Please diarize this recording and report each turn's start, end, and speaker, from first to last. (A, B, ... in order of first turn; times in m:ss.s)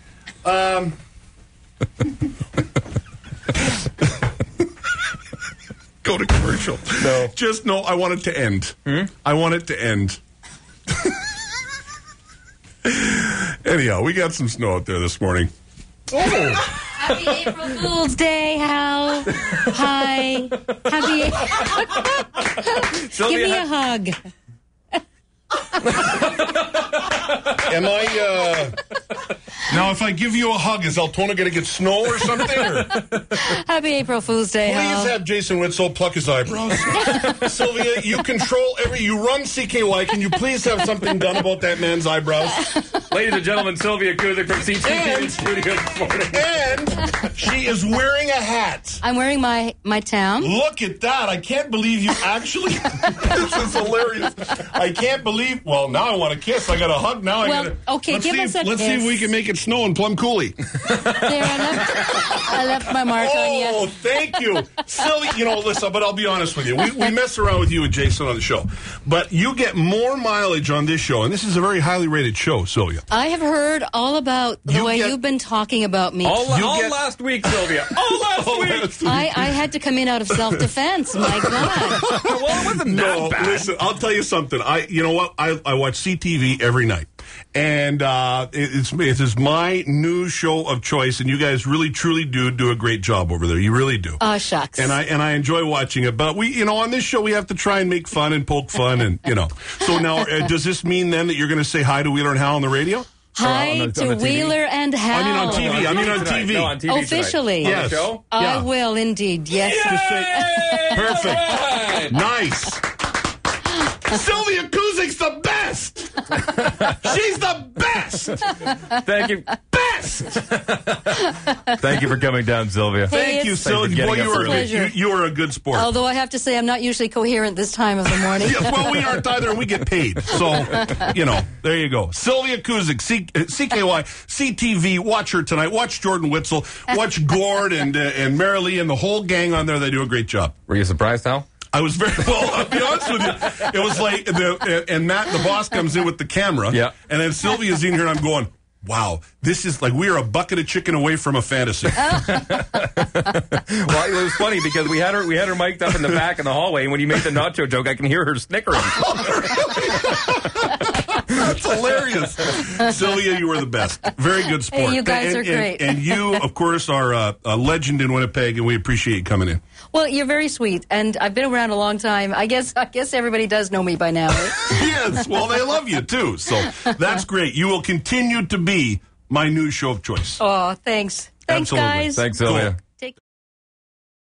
0:00.4-0:01.0 A
0:06.0-0:10.2 A
0:07.0-0:07.3 B
0:12.8-0:15.5 A
0:16.1-0:16.6 B
0:16.8-0:24.2 C
0:19.4-0:19.7 B
0:23.1-0:23.6 B
0:27.4-0:28.8 A
0:29.7-0:32.9 A
0:33.2-0:35.2 C
0:34.6-0:42.8 A
0:43.1-0:46.4 B
0:44.8-0:45.4 A
0:46.3-0:49.0 A
0:49.0-0:50.5 C
0:50.4-1:02.3 A
0:57.4-0:59.3 C
1:01.1-1:03.9 C
1:02.9-1:13.0 A
1:13.1-1:16.6 C
1:14.6-1:15.1 A
1:16.2-1:19.0 B
1:16.4-1:19.5 A
1:19.0-1:22.0 C
1:20.3-1:20.7 A
1:21.2-1:34.2 A
1:22.0-1:23.7 B
1:34.2-1:35.0 C
1:34.8-1:43.1 A
1:43.3-1:46.2 C
1:43.4-1:44.6 B
1:45.1-1:46.8 A
1:45.3-1:48.2 B
1:46.8-1:50.8 C
1:47.6-1:48.7 A
1:49.6-1:52.2 B
1:49.8-1:52.8 A
1:54.0-1:58.7 A
1:58.9-1:59.6 B
1:59.7-2:00.3 A
2:00.2-2:04.7 B
2:03.1-2:04.9 C
2:03.1-2:05.9 A
2:05.7-2:09.3 C
2:08.3-2:20.5 A
2:10.4-2:11.0 C
2:20.7-2:21.4 B
2:21.7-2:32.4 A
2:32.1-2:39.1 B
2:38.8-2:49.6 A
2:44.7-2:46.4 C
2:49.9-2:55.0 C
2:54.7-3:00.4 A
3:00.4-3:02.3 C
3:01.5-3:02.7 A
3:02.1-3:02.8 B